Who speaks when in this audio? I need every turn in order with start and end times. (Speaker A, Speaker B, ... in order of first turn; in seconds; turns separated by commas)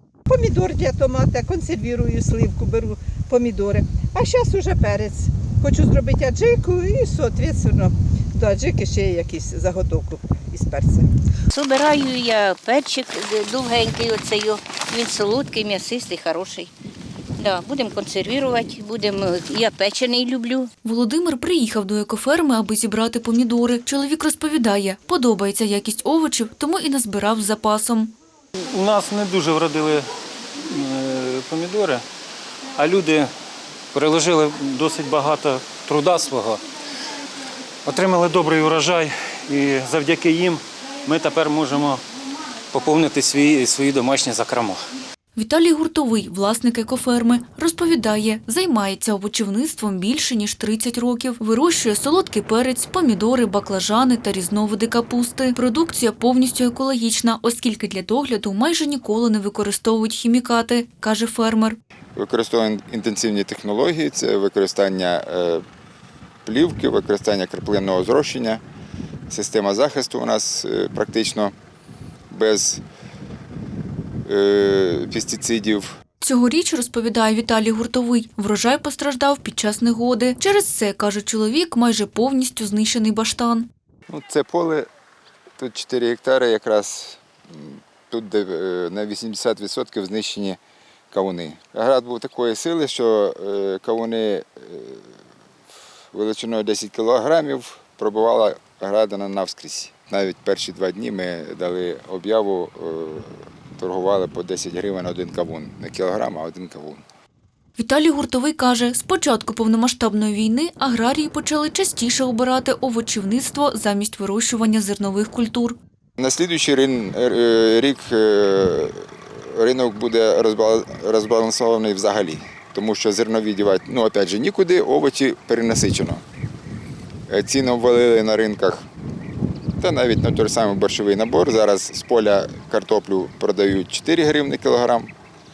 Speaker A: 0.3-11.1, Speaker B: 11.5-16.7, Speaker B: 17.4-20.7, Speaker C: 20.8-28.1, Speaker D: 28.7-30.1, Speaker D: 30.6-32.0, Speaker D: 32.8-33.3, Speaker D: 33.9-36.6, Speaker D: 37.9-42.0, Speaker D: 42.7-44.9, Speaker C: 45.4-61.8, Speaker E: 62.2-65.6, Speaker E: 66.5-68.6, Speaker E: 69.3-71.5, Speaker E: 72.3-72.8, Speaker E: 74.2-76.0, Speaker C: 76.2-83.7, Speaker E: 84.1-84.9, Speaker E: 85.6-90.6, Speaker E: 91.1-95.1, Speaker E: 96.1-107.0, Speaker C: 107.8-115.8, Speaker E: 116.2-126.2, Speaker E: 127.3-128.9, Speaker E: 129.8-135.1